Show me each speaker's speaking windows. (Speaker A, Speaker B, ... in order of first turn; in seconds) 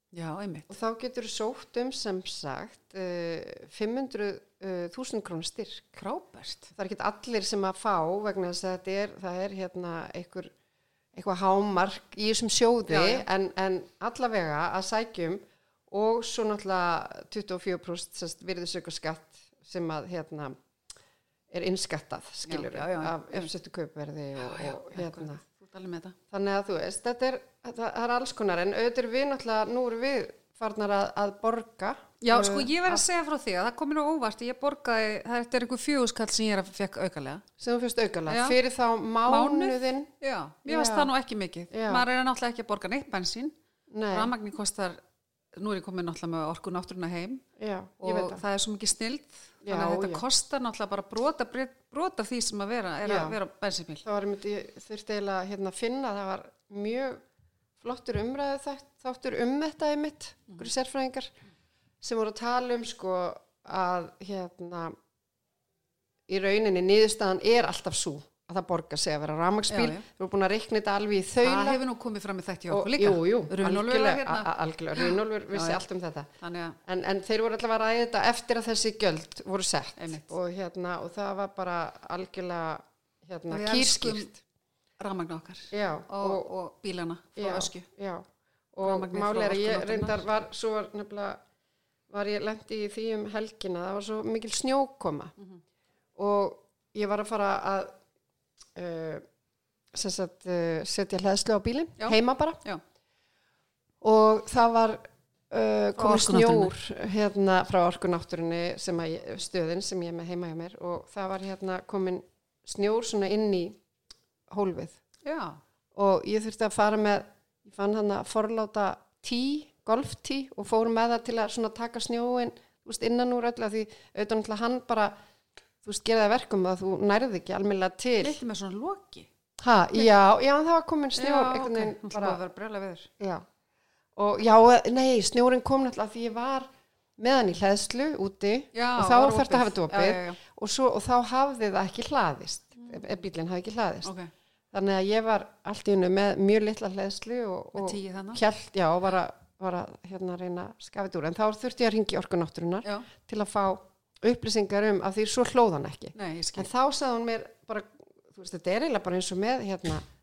Speaker A: 0.1-0.7, 6.0-6.7, 12.9-13.2, 22.5-23.5, 24.4-26.2, 32.2-37.4, 38.3-38.6, 39.2-43.5, 44.1-45.0, 45.6-47.4, 48.0-54.0, 69.7-70.0, 71.4-75.8, 76.4-76.8, 80.0-80.3, 83.5-84.3, 85.0-87.9, 88.8-90.2, 102.0-102.8, 106.0-106.7, 115.2-115.6, 128.2-129.3, 131.2-133.1, 138.7-140.4, 147.8-148.4, 156.1-156.7
Speaker B: 0.7-6.0, 6.7-10.5, 11.1-20.6, 21.5-25.4, 26.3-33.0, 37.6-40.1, 40.7-41.1, 41.7-42.0, 43.9-44.3, 47.6-48.4, 49.6-50.2, 53.0-53.4, 54.0-57.2, 57.8-61.3, 62.0-65.0, 66.3-71.8, 72.7-76.3, 76.9-84.3, 85.7-86.5, 87.4-91.4, 92.1-95.3, 96.2-98.0, 98.8-99.2, 99.9-102.6, 104.0-113.8, 114.5-115.0, 115.9-125.2, 125.8-128.4, 129.6-132.4, 133.2-133.4, 134.2-144.1, 144.7-160.1